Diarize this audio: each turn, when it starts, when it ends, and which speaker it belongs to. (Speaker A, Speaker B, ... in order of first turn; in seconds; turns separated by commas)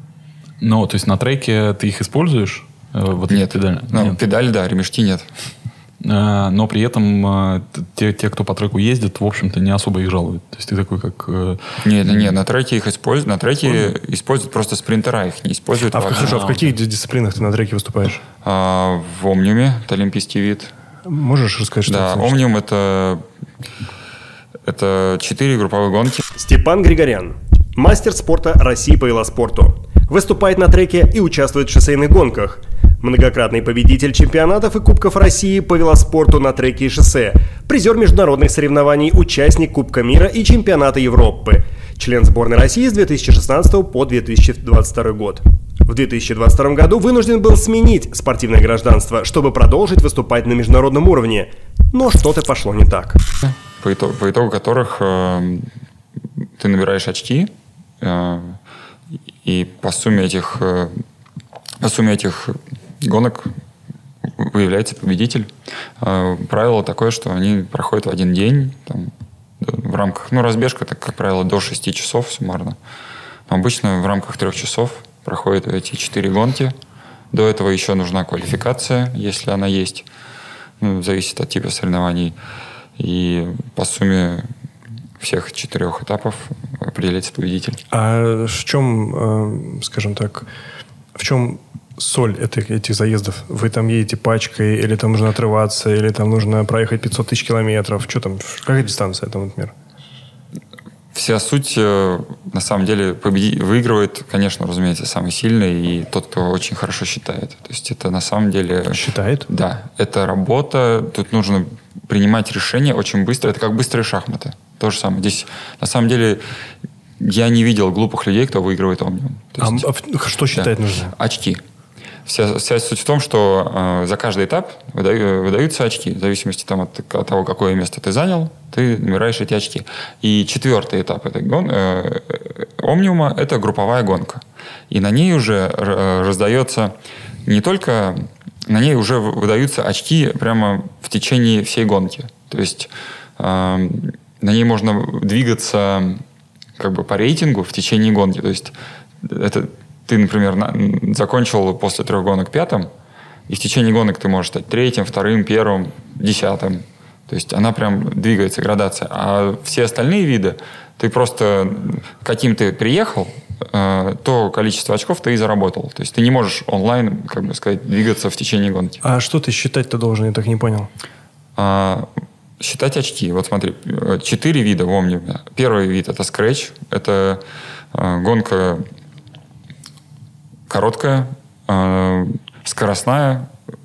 Speaker A: 0.6-4.2, Speaker B: 3.3-5.3, Speaker A: 6.0-12.3, Speaker B: 11.8-16.6, Speaker C: 15.9-18.2, Speaker A: 16.2-16.6, Speaker B: 18.4-20.7, Speaker C: 21.1-22.4, Speaker B: 21.9-23.2, Speaker B: 24.6-26.2, Speaker D: 26.4-53.2, Speaker B: 53.4-55.7, Speaker B: 56.6-57.5, Speaker B: 58.0-58.6, Speaker B: 59.4-61.0, Speaker B: 61.8-63.5, Speaker B: 64.2-72.8, Speaker B: 73.5-76.8, Speaker B: 77.3-80.1, Speaker B: 80.8-82.4, Speaker B: 83.0-84.5, Speaker B: 85.2-87.8, Speaker C: 87.9-90.5, Speaker C: 91.2-99.7, Speaker B: 101.1-116.4, Speaker C: 108.9-109.5, Speaker B: 117.2-119.9, Speaker C: 119.6-121.2, Speaker B: 120.5-121.6, Speaker B: 122.3-146.2, Speaker B: 146.8-152.9, Speaker B: 153.5-169.0, Speaker C: 169.0-170.9, Speaker B: 171.6-172.1, Speaker B: 172.6-177.4, Speaker B: 177.9-178.9, Speaker B: 180.7-183.5